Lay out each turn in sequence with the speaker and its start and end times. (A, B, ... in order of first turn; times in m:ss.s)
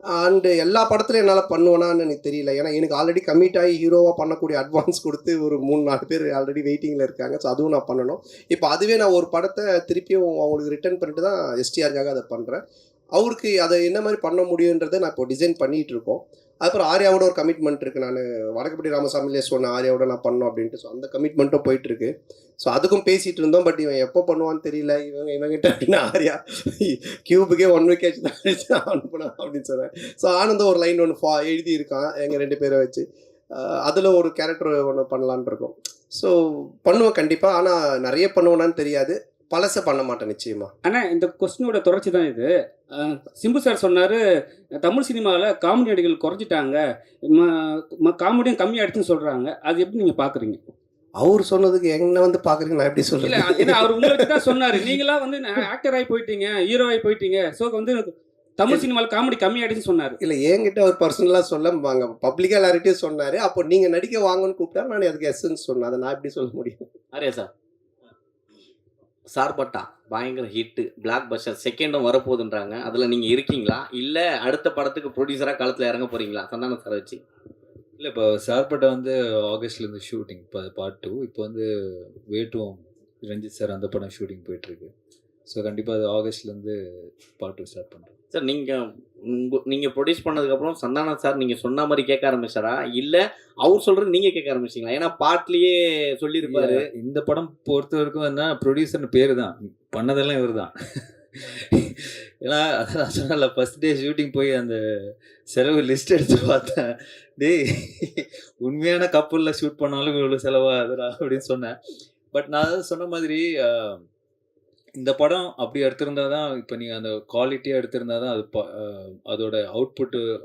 0:00.2-0:12.6 A
0:13.2-0:22.1 A
0:22.6-0:33.0 A
0:33.6-0:36.3 A
0:36.8-0:40.7 A
0:40.8-0:44.2 B
0:44.8-0:50.6 B
0:51.2-0:54.9 A
0:53.2-1:00.2 B
1:00.2-1:06.8 A
1:07.1-1:07.5 C
1:09.3-1:17.2 C
1:18.0-1:21.7 D
1:22.3-1:24.9 D
1:25.5-1:26.8 D
1:27.3-1:28.1 D
1:28.3-1:36.8 C
1:36.4-1:40.7 D
1:41.4-1:51.7 D
1:52.3-1:54.0 D
1:55.0-2:00.2 D